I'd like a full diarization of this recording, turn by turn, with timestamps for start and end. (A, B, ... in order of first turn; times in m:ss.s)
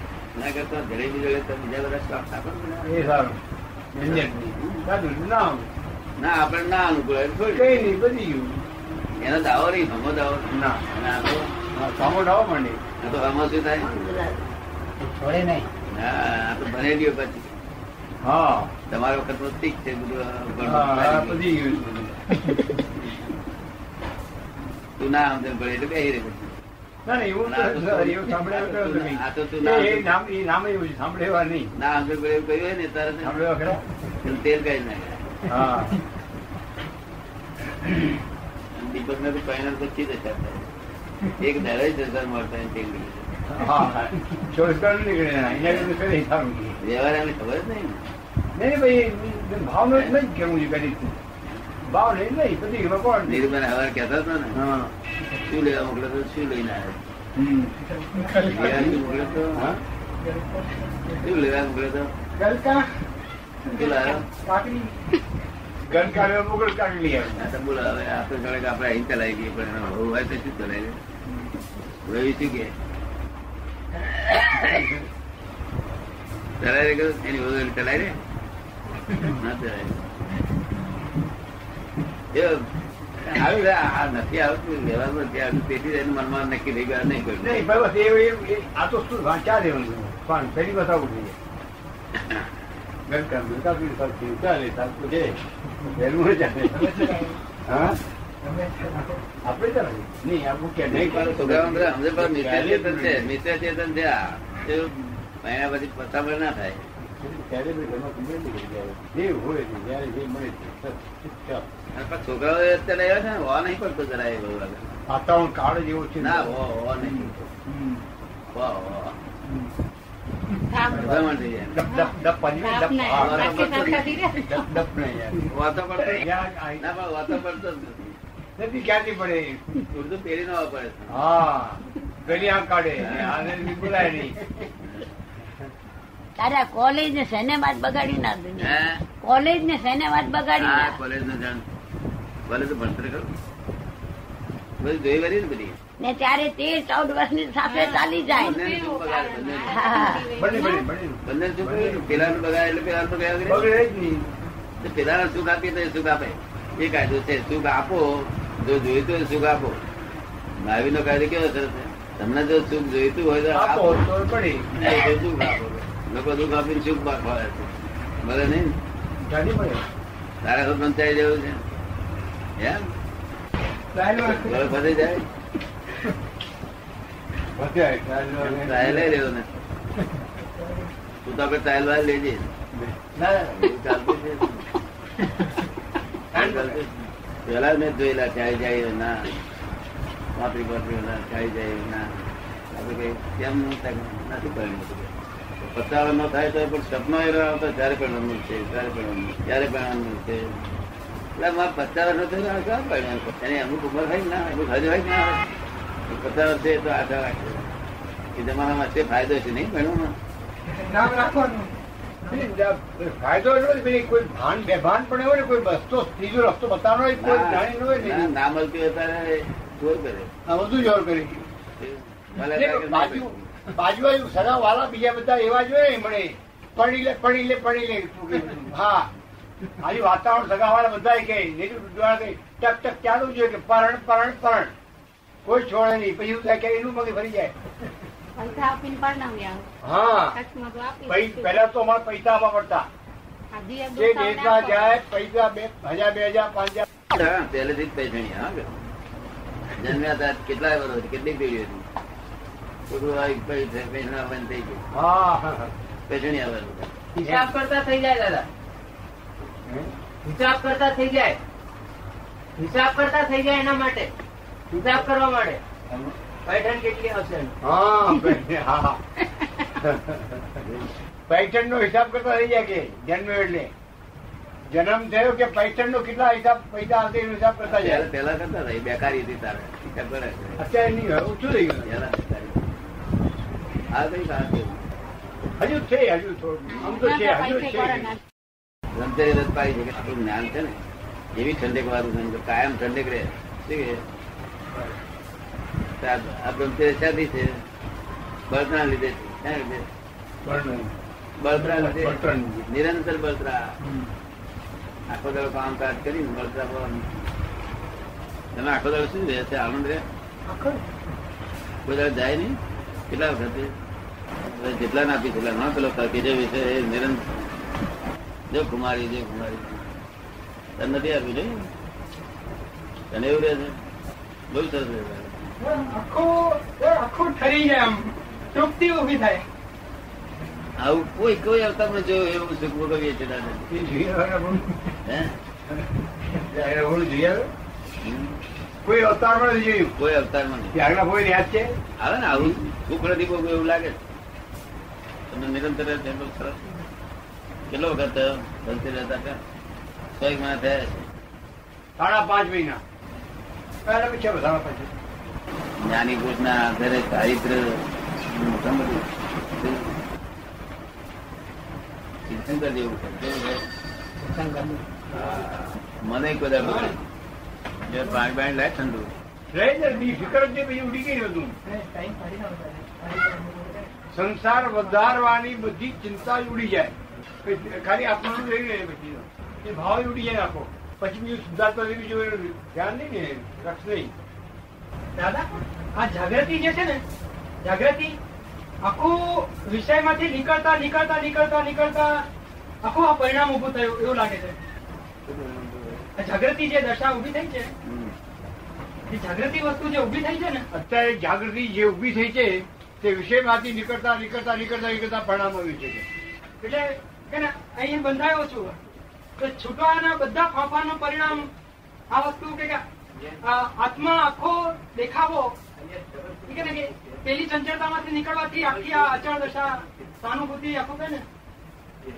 0:00.4-0:03.1 A
0:02.8-0:03.4 B
0:03.9-0:05.7 B
0:04.0-0:04.8 A
0:06.2-0:07.9 A
0:07.5-0:08.6 B
0:09.2-0:11.5 A
0:10.5-0:10.8 B
0:11.7-0:12.8 B
0:13.0-0:13.9 A
0:15.2-0:15.6 C
0:15.9-0:17.6 A
0:18.2-0:18.7 B
0:18.9-0:21.8 A
0:20.6-0:22.2 B
0:25.0-0:26.6 A
0:27.0-0:31.7 B
0:27.4-0:30.2 A
0:31.8-0:33.4 A
0:33.2-0:33.8 B
0:34.2-0:35.2 A
0:35.5-0:36.0 B
0:38.7-0:40.7 A
0:41.3-0:43.3 A
0:43.5-0:46.8 B
0:45.6-0:45.9 A
0:46.8-0:48.0 A
0:48.6-0:51.2 B
0:51.8-0:53.5 B
0:53.3-0:54.6 A
0:54.5-0:54.9 B
0:55.4-0:57.0 A
0:57.4-0:59.8 B
0:58.2-0:58.5 D
0:58.3-0:59.7 A
1:00.2-1:01.1 D
1:01.1-1:02.1 A
1:02.4-1:02.9 D
1:03.7-1:04.3 A
1:03.7-1:05.0 D
1:05.8-1:07.4 B
1:07.4-1:11.0 A
1:12.0-1:12.7 A
1:14.0-1:14.9 A
1:16.6-1:18.2 A
1:19.1-1:20.1 A
1:22.3-1:22.7 A
1:23.2-1:27.7 A
1:27.4-1:31.4 B
1:33.1-1:38.0 B
1:36.9-1:37.3 C
1:39.4-1:43.3 B
1:40.9-1:46.8 A
1:47.2-1:51.7 B
1:52.0-1:55.0 A
1:55.1-1:58.0 B
1:56.2-1:57.5 A
1:58.5-1:59.2 A
2:00.6-2:01.1 E
2:00.9-2:01.8 A
2:01.7-2:05.5 B
2:01.9-2:04.6 E
2:03.1-2:04.2 A
2:05.5-2:06.3 A
2:06.1-2:06.8 B
2:06.8-2:08.2 A
2:08.6-2:09.7 B
2:09.8-2:11.2 A
2:11.1-2:14.7 B
2:12.3-2:13.9 A
2:16.4-2:21.0 F
2:18.6-2:19.0 A
2:20.6-2:21.7 A
2:22.5-2:23.3 A
2:24.8-2:25.8 A
2:26.0-2:28.7 F
2:27.6-2:30.9 E
2:28.3-2:30.0 A
2:29.7-2:30.3 F
2:30.4-2:32.4 B
2:31.2-2:33.8 A
2:33.4-2:34.3 B
2:34.8-2:39.8 A
2:40.6-2:48.8 A
2:43.5-2:44.7 B
2:49.2-2:49.8 B
2:50.4-2:51.6 A
2:52.6-2:52.9 A
2:53.9-2:54.6 D
2:54.1-2:55.3 A
2:57.6-2:59.1 B
2:58.4-2:59.5 A
3:01.2-3:02.5 A
3:03.2-3:03.6 C
3:03.6-3:04.6 A
3:06.4-3:06.9 A
3:06.4-3:06.8 C
3:07.4-3:09.3 A
3:10.4-3:12.1 A
3:12.7-3:20.5 A
3:21.4-3:25.4 A
3:26.1-3:27.7 A
3:28.4-3:30.1 A
3:30.8-3:31.7 D
3:32.3-3:38.3 B
3:37.2-3:40.3 A
3:40.5-3:41.5 B
3:41.8-3:43.5 A
3:42.4-3:49.1 B
3:49.8-3:54.7 B
3:55.4-3:57.5 B
3:58.4-3:59.7 E
3:59.8-4:00.4 B
4:00.2-4:01.6 E
4:01.1-4:02.9 B
4:03.5-4:05.0 E
4:03.9-4:06.9 B
4:07.1-4:08.8 A
4:09.8-4:11.9 A
4:12.9-4:14.8 A
4:14.9-4:15.7 B
4:16.1-4:16.9 A
4:17.2-4:18.5 C
4:17.2-4:17.5 B
4:19.6-4:19.9 B
4:20.2-4:21.4 C
4:22.6-4:24.1 C
4:24.7-4:25.0 B
4:24.8-4:25.6 C
4:26.4-4:27.6 C
4:27.6-4:29.0 B
4:29.8-4:30.6 B
4:31.3-4:33.7 B
4:34.7-4:38.1 B
4:37.6-4:40.6 A
4:40.6-4:41.9 B
4:41.8-4:43.0 A
4:43.9-4:44.8 A
4:45.6-4:48.2 B
4:46.8-4:48.2 E
4:48.9-4:50.8 A
4:51.4-4:54.0 A
4:56.0-4:57.6 A
4:58.5-4:59.9 A
5:00.4-5:00.9 B
5:01.4-5:03.7 A
5:01.6-5:02.6 B
5:05.1-5:07.1 A
5:08.5-5:10.1 A
5:10.5-5:10.8 D
5:11.8-5:12.6 A
5:13.1-5:13.7 A
5:14.4-5:17.2 A
5:18.5-5:19.9 A
5:20.8-5:21.7 A
5:23.1-5:23.8 A
5:24.5-5:25.4 A
5:25.6-5:29.4 D
5:30.8-5:33.7 A
5:33.7-5:34.7 B
5:35.0-5:35.4 A
5:36.3-5:37.5 B
5:38.0-5:38.4 A
5:38.8-5:39.9 B
5:40.0-5:40.8 A
5:40.7-5:41.8 B
5:42.0-5:44.0 A
5:45.3-5:46.6 A
5:47.7-5:49.4 A
5:50.2-5:51.1 A
5:52.0-5:52.8 B
5:53.9-5:54.9 B
5:55.8-6:00.0 A
6:02.3-6:03.6 A
6:04.4-6:04.7 D
6:05.1-6:07.0 A
6:07.9-6:09.2 A
6:09.5-6:11.6 B
6:11.7-6:13.9 D
6:14.1-6:16.9 B
6:17.4-6:24.1 B
6:25.2-6:25.5 D
6:26.0-6:27.0 D
6:27.6-6:28.2 D
6:28.8-6:32.3 D
6:32.8-6:34.6 D
6:35.3-6:36.0 A
6:36.2-6:37.7 D
6:37.8-6:38.1 A
6:39.1-6:40.6 D
6:40.7-6:46.0 B
6:46.6-6:48.8 D
6:49.4-6:51.5 D
6:52.1-6:52.8 D
6:53.4-6:55.6 D
6:56.5-7:01.2 D